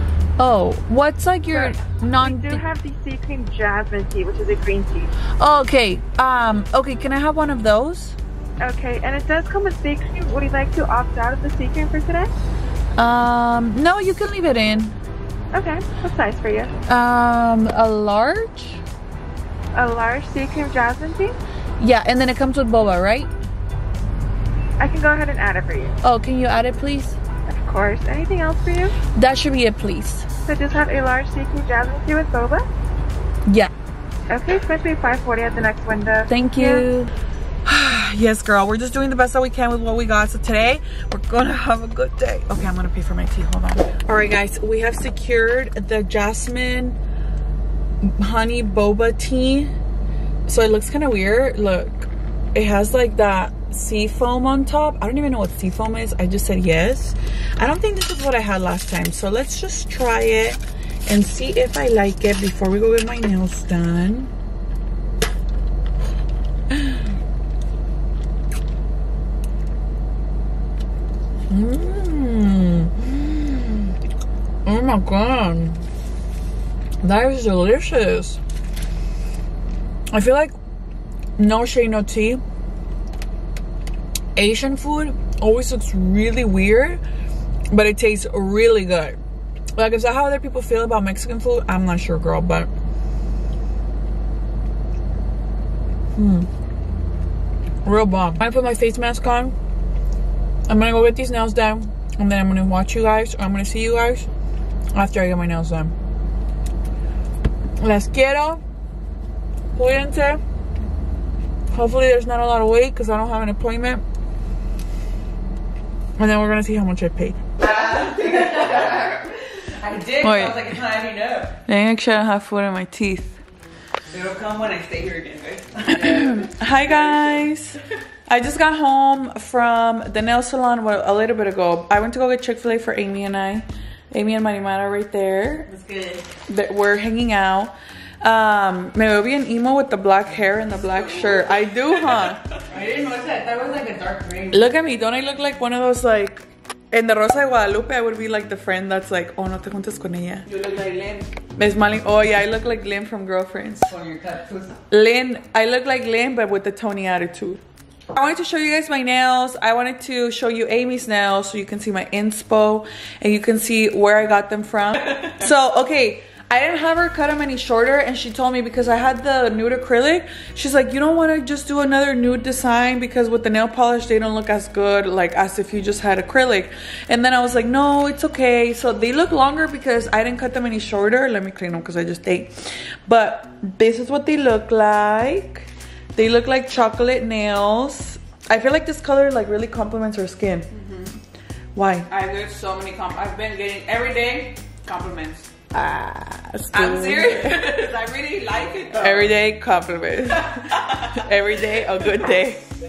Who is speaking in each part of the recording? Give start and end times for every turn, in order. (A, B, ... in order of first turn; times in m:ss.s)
0:00.4-0:02.6 A
0:01.5-0:05.1 B
0:05.4-0:08.2 A
0:08.6-0:12.3 B
0:13.0-0:15.0 A
0:15.5-0:16.7 B
0:16.9-0:18.8 A
0:19.7-0:21.4 B
0:21.8-0:23.3 A
0:24.8-0:25.9 B
0:26.0-0:27.2 A
0:27.5-0:29.0 B
0:29.1-0:30.3 A
0:30.5-0:32.6 B
0:34.3-0:36.8 B
0:36.3-0:37.1 A
0:37.6-0:47.0 A
0:48.0-0:49.7 A
0:50.4-1:04.3 A
1:06.7-1:07.0 A
1:11.5-1:13.9 A
1:14.6-1:15.8 A
1:17.0-1:18.4 A
1:20.1-1:20.5 A
1:21.4-1:22.4 A
1:24.4-1:27.0 A
1:27.7-1:29.2 A
1:29.8-1:32.7 A
1:36.2-1:36.5 A
1:37.8-1:39.5 A
1:40.7-1:44.3 A
1:44.9-1:45.9 A
1:47.8-1:48.6 A
1:49.7-1:50.4 A
1:51.7-1:54.0 A
1:56.2-1:57.5 A
1:57.6-2:01.5 C
2:00.2-2:00.7 A
2:01.7-2:03.4 A
2:04.1-2:07.4 C
2:05.9-2:15.7 A
2:15.7-2:16.2 C
2:16.5-2:22.5 A
2:20.8-2:24.6 C
2:24.5-2:30.4 A
2:30.4-2:31.3 C
2:31.6-2:33.9 A
2:33.9-2:34.8 C
2:34.9-2:37.6 A
2:38.1-3:10.7 A
3:10.7-3:11.1 C
3:11.7-3:12.1 A
3:12.1-3:15.5 C
3:15.7-3:17.8 A
3:16.7-3:19.4 C
3:18.9-3:22.6 A
3:20.3-3:21.4 C